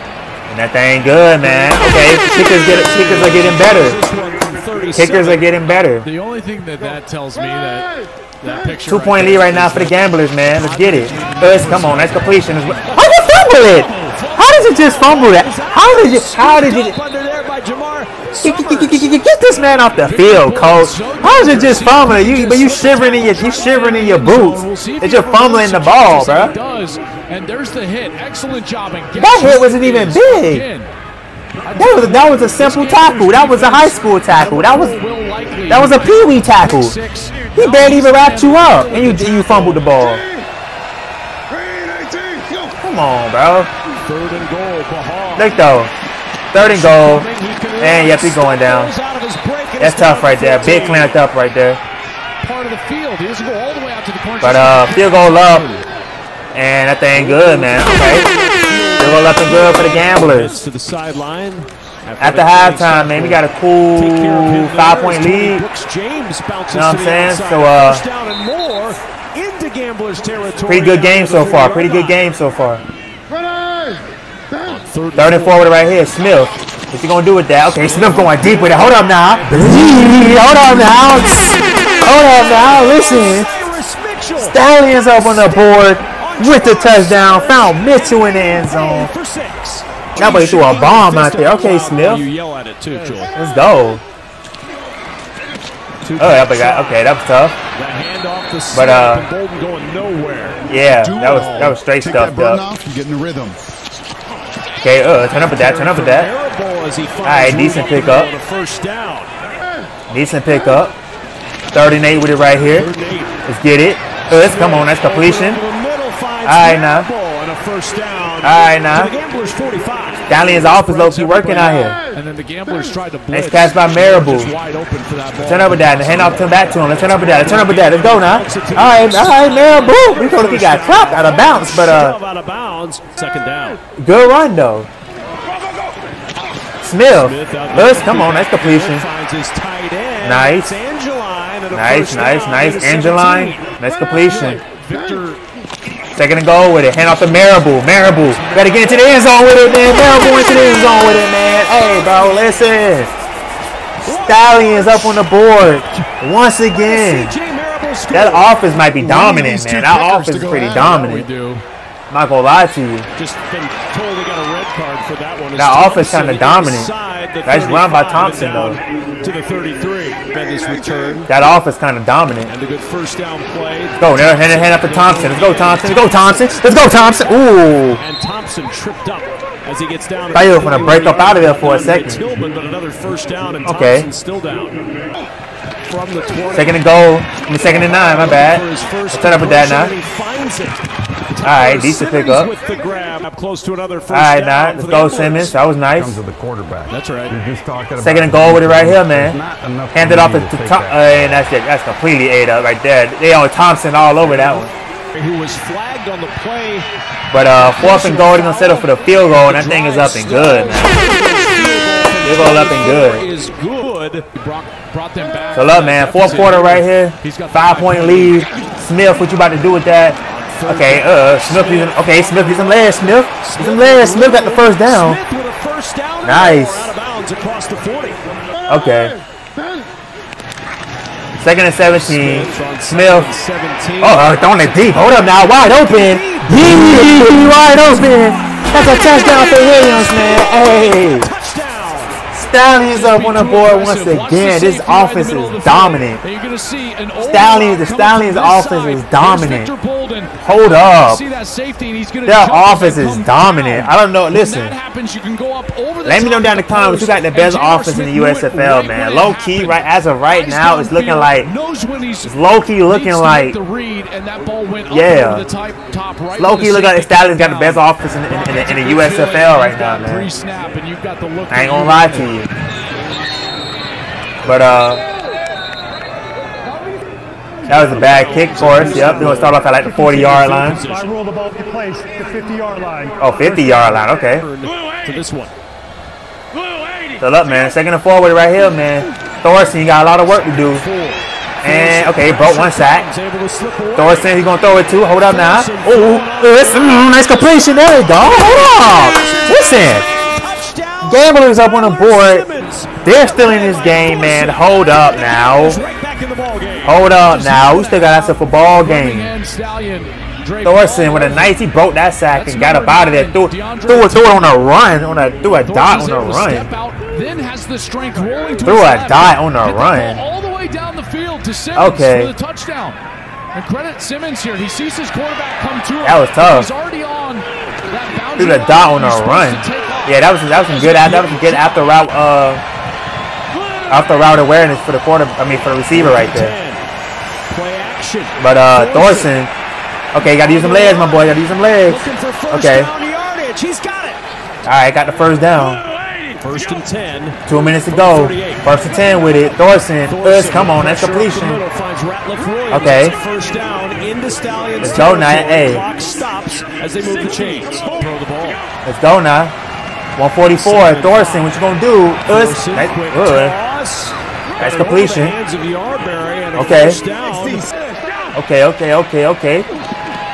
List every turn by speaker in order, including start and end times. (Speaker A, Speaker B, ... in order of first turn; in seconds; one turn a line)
Speaker A: 0.5-4.0
Speaker B: 1.4-5.5
Speaker A: 4.9-6.1
Speaker C: 6.0-10.0
Speaker A: 8.8-17.0
Speaker C: 10.6-13.2
Speaker B: 13.9-19.3
Speaker C: 14.0-14.8
Speaker A: 18.4-26.5
Speaker C: 20.0-30.9
Speaker B: 22.7-23.8
Speaker A: 29.2-30.6
Speaker C: 31.6-39.5
Speaker A: 31.7-35.0
Speaker A: 35.7-37.0
Speaker A: 37.5-40.2
Speaker B: 39.5-39.9
Speaker A: 42.8-43.7
Speaker B: 44.0-45.6
Speaker A: 45.4-45.9
Speaker A: 46.5-47.3
Speaker B: 46.5-51.2
Speaker A: 47.8-48.9
Speaker A: 49.8-51.8
Speaker C: 52.4-55.5
Speaker A: 54.4-55.7
Speaker B: 55.5-55.8
Speaker A: 56.5-58.3
Speaker B: 57.1-72.2
Speaker A: 59.0-60.6
Speaker A: 62.2-65.6
Speaker A: 66.7-68.0
Speaker A: 70.7-72.8
Speaker B: 74.5-75.7
Speaker A: 75.1-83.5
Speaker B: 77.8-79.6
Speaker B: 82.2-93.3
Speaker A: 84.4-89.1
Speaker A: 90.2-92.2
Speaker A: 93.3-94.0
Speaker B: 96.0-97.0
Speaker A: 96.2-97.6
Speaker B: 97.7-100.6
Speaker A: 98.7-99.3
Speaker A: 100.7-102.7
Speaker D: 101.0-103.6
Speaker A: 104.8-106.3
Speaker B: 105.5-109.3
Speaker A: 107.2-108.3
Speaker A: 110.1-111.0
Speaker A: 111.7-112.9
Speaker B: 112.7-113.4
Speaker A: 113.5-115.6
Speaker B: 114.3-122.0
Speaker A: 116.4-117.1
Speaker A: 118.4-119.1
Speaker A: 120.3-122.0
Speaker C: 122.1-126.2
Speaker A: 123.3-124.5
Speaker B: 123.3-124.2
Speaker A: 125.4-132.2
Speaker B: 125.4-133.8
Speaker A: 134.0-134.9
Speaker A: 136.8-139.1
Speaker B: 137.2-145.4
Speaker A: 140.2-140.8
Speaker A: 141.7-144.6
Speaker A: 146.1-153.1
Speaker C: 148.2-148.7
Speaker B: 148.4-149.1
Speaker B: 154.0-155.2
Speaker A: 154.2-157.3
Speaker B: 156.7-159.0
Speaker A: 158.1-161.3
Speaker C: 159.0-161.6
Speaker B: 160.8-161.1
Speaker A: 162.1-163.1
Speaker B: 163.2-171.3
Speaker A: 165.6-166.9
Speaker A: 167.4-168.8
Speaker A: 171.3-172.5
Speaker B: 172.4-176.6
Speaker A: 174.0-178.0
Speaker B: 178.0-184.8
Speaker A: 180.3-182.2
Speaker A: 183.6-184.1
Speaker B: 185.8-186.8
Speaker A: 186.5-189.9
Speaker B: 187.6-195.6
Speaker A: 191.4-192.5
Speaker A: 194.1-196.2
Speaker D: 195.9-201.5
Speaker B: 196.9-197.4
Speaker A: 198.0-199.4
Speaker A: 199.9-204.7
Speaker B: 204.2-206.9
Speaker A: 207.3-211.1
Speaker B: 207.6-214.7
Speaker A: 212.2-213.3
Speaker C: 214.4-218.4
Speaker A: 215.5-225.2
Speaker B: 220.4-228.2
Speaker A: 226.2-226.9
Speaker A: 228.7-229.2
Speaker A: 231.4-233.3
Speaker B: 231.9-234.4
Speaker A: 234.0-241.3
Speaker B: 235.9-236.9
Speaker B: 239.1-242.2
Speaker A: 242.3-246.2
Speaker C: 242.9-259.8
Speaker A: 247.2-249.7
Speaker A: 250.4-251.2
Speaker A: 252.2-254.8
Speaker A: 256.0-261.5
Speaker C: 260.3-272.3
Speaker A: 262.2-263.6
Speaker A: 264.9-265.4
Speaker A: 266.4-270.3
Speaker A: 271.5-272.5
Speaker A: 274.4-275.0
Speaker A: 277.7-280.8
Speaker B: 277.7-281.1
Speaker E: 280.7-283.2
Speaker A: 283.2-284.4
Speaker B: 283.3-285.5
Speaker A: 287.2-290.8
Speaker B: 290.3-294.4
Speaker A: 291.6-293.1
Speaker A: 293.9-300.1
Speaker B: 295.0-297.2
Speaker B: 298.2-307.1
Speaker A: 301.0-302.4
Speaker A: 303.0-305.8
Speaker A: 306.8-309.3
Speaker C: 307.2-311.6
Speaker A: 310.6-316.7
Speaker C: 312.3-314.5
Speaker C: 315.6-323.0
Speaker A: 318.6-320.2
Speaker A: 321.8-322.3
Speaker C: 323.5-331.1
Speaker A: 326.0-326.7
Speaker A: 328.4-332.6
Speaker B: 331.0-331.6
Speaker A: 333.9-336.5
Speaker B: 335.9-336.8
Speaker B: 337.5-339.3
Speaker A: 338.4-339.5
Speaker A: 340.1-342.9
Speaker B: 340.2-341.3
Speaker B: 341.8-344.2
Speaker A: 344.6-345.8
Speaker B: 346.4-348.8
Speaker A: 347.5-351.6
Speaker B: 350.1-358.6
Speaker A: 352.7-353.1
Speaker A: 354.8-355.8
Speaker A: 358.8-359.5
Speaker A: 360.1-363.6
Speaker B: 360.5-361.5
Speaker B: 362.2-368.0
Speaker A: 364.6-365.4
Speaker A: 366.5-367.7
Speaker A: 368.3-369.7